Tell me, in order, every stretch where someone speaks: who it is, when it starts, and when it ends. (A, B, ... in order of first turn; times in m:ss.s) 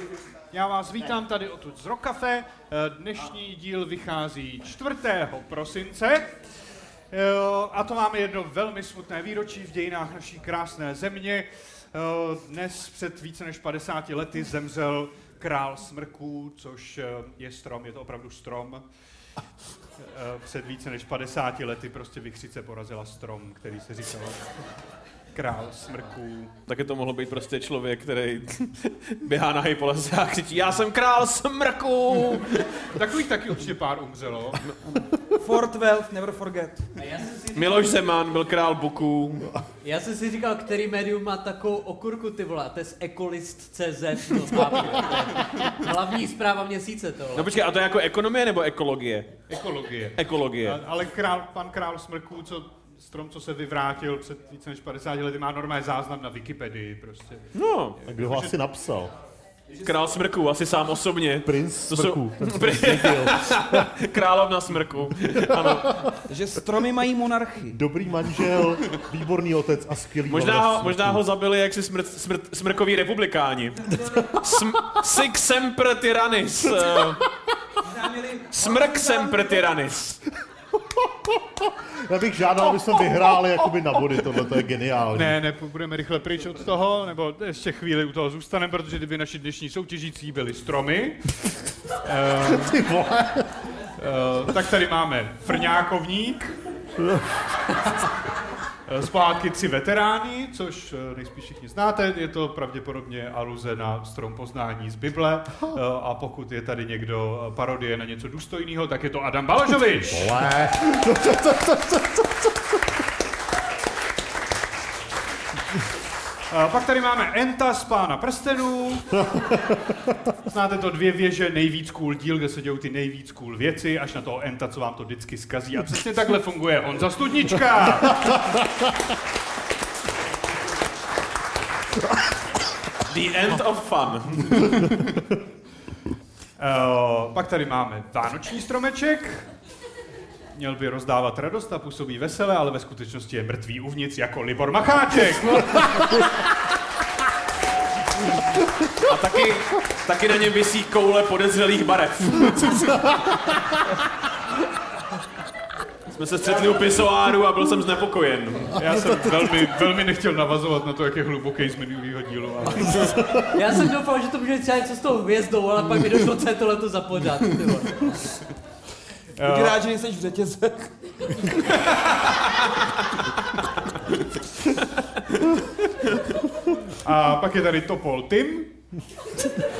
0:00.5-0:06.3 A
0:07.1-0:18.8 A
0:20.0-0:24.6 A
0:25.3-0:26.5 A
0:26.7-0:32.6 B
0:32.9-0:34.6 A
0:34.8-0:36.9 C
0:37.0-0:37.6 D
0:37.5-0:39.6 B
0:39.8-0:47.5 D
0:47.3-0:49.3 B
0:49.5-0:57.5 A
0:50.2-0:50.8 B
0:57.5-0:58.0 B
0:58.0-0:58.6 A
0:58.0-0:59.1 E
0:59.8-1:06.0 B
1:01.4-1:03.9 E
1:05.6-1:06.1 E
1:06.3-1:07.8 C
1:07.7-1:11.2 E
1:10.3-1:17.3 B
1:17.8-1:19.7 C
1:18.5-1:20.2 B
1:20.9-1:25.4 E
1:25.1-1:31.4 A
1:32.0-1:32.7 A
1:32.5-1:33.6 E
1:34.0-1:36.6 A
1:37.0-1:37.2 E
1:38.9-1:50.4 A
1:50.1-1:52.3 E
1:56.5-1:59.1 A
2:00.4-2:08.4 A
2:13.1-2:14.9 B
2:16.6-2:19.5 A
2:20.5-2:25.7 A
2:29.0-2:33.4 B
2:36.1-2:39.6 B
2:38.8-2:43.1 A
2:43.4-2:48.3 D
2:49.4-2:49.8 A
2:49.4-2:50.9 C
2:57.0-2:58.8 A